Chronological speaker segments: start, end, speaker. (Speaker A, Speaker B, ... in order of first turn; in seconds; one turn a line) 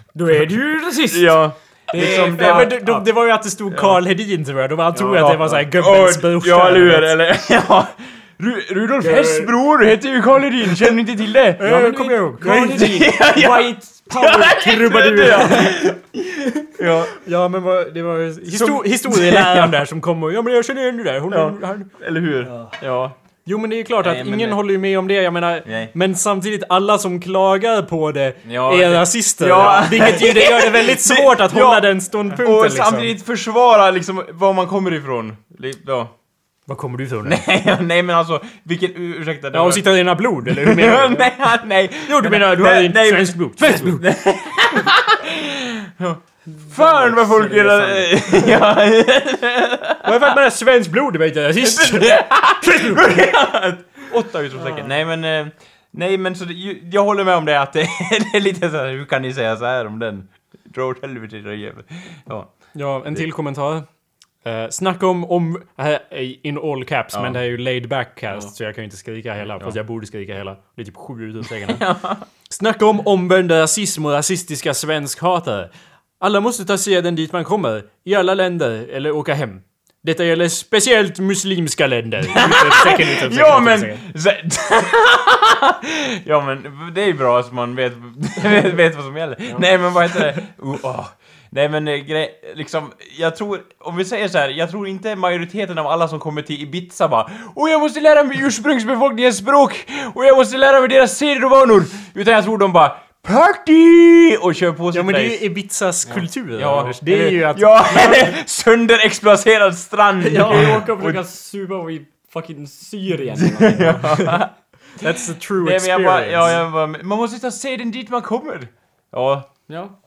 Speaker A: 0.1-3.0
Speaker B: 1.1-3.0
Speaker C: 2.0-7.2
Speaker B: 3.7-4.0
Speaker A: 4.9-5.6
Speaker B: 5.2-11.7
Speaker A: 9.0-9.5
Speaker C: 11.6-12.8
Speaker A: 11.6-15.8
Speaker B: 12.4-17.1
Speaker C: 17.2-21.9
Speaker B: 18.5-19.8
Speaker B: 21.3-23.1
Speaker C: 23.4-33.1
Speaker B: 24.0-24.6
Speaker B: 25.6-25.9
Speaker B: 28.4-36.1
Speaker C: 36.7-37.4
Speaker B: 37.2-50.1
Speaker C: 39.5-41.3
Speaker C: 42.0-44.0
Speaker A: 46.5-48.5
Speaker C: 50.0-53.1
Speaker B: 51.6-62.5
Speaker A: 54.5-54.9
Speaker C: 62.7-63.9
Speaker C: 64.4-71.9
Speaker B: 67.1-67.4
Speaker B: 71.7-72.2
Speaker C: 72.5-84.0
Speaker B: 82.3-105.4
Speaker C: 104.9-108.3
Speaker A: 106.0-106.9
Speaker B: 106.5-111.2
Speaker A: 110.2-114.2
Speaker B: 113.4-114.5
Speaker C: 115.0-116.6
Speaker B: 115.6-119.5
Speaker A: 119.7-119.9